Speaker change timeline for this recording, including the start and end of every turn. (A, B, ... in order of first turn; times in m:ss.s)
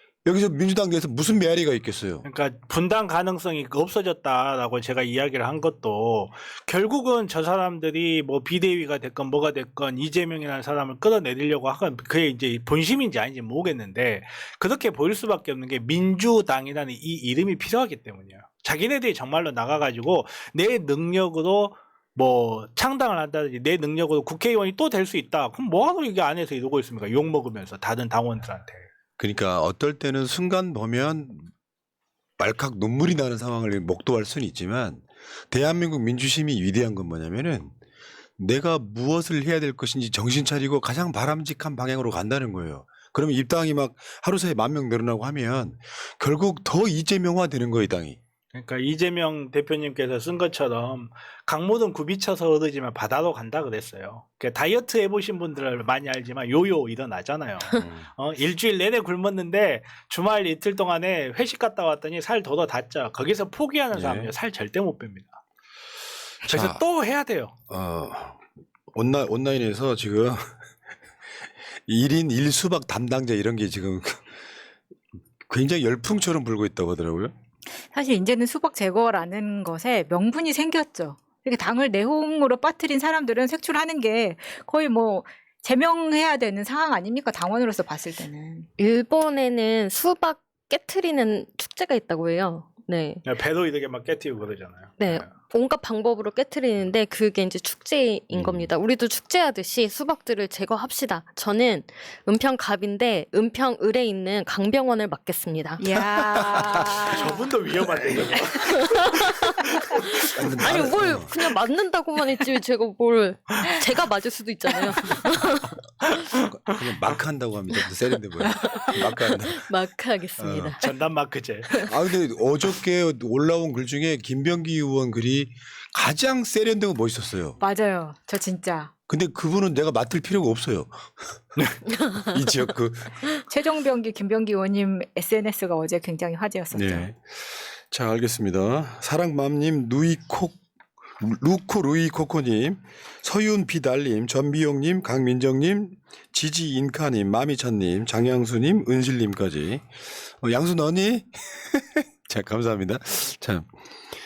0:00.2-0:02.2 A
0:02.2-0:28.8 B
0:29.2-0:31.5 A
0:32.4-0:37.7 A
0:38.4-0:48.2 A
0:48.5-1:05.4 B
0:57.8-0:58.0 A
1:03.9-1:04.3 A
1:06.4-1:07.5 B
1:06.4-1:06.8 A
1:07.7-1:08.4 A
1:08.9-1:10.5 A
1:11.9-1:14.2 A
1:15.5-1:17.3 A
1:17.8-1:28.7 C
1:28.8-1:33.2 D
1:33.2-1:35.3 B
1:35.0-1:45.8 D
1:38.3-1:38.7 A
1:45.8-1:47.4 C
1:46.1-1:47.0 A
1:47.1-1:50.7 B
1:48.6-1:49.6 D
1:50.3-1:51.3 A
1:50.6-1:55.8 D
1:56.1-1:56.8 B
1:56.6-1:59.6 A
1:58.4-2:00.9 D
2:00.4-2:00.8 A
2:00.8-2:01.9 B
2:01.9-2:07.6 A
2:07.6-2:08.9 C
2:09.1-2:11.1 A
2:12.2-2:13.2 A
2:13.4-2:17.1 C
2:16.7-2:20.6 A
2:21.2-2:29.8 A
2:30.4-2:33.7 A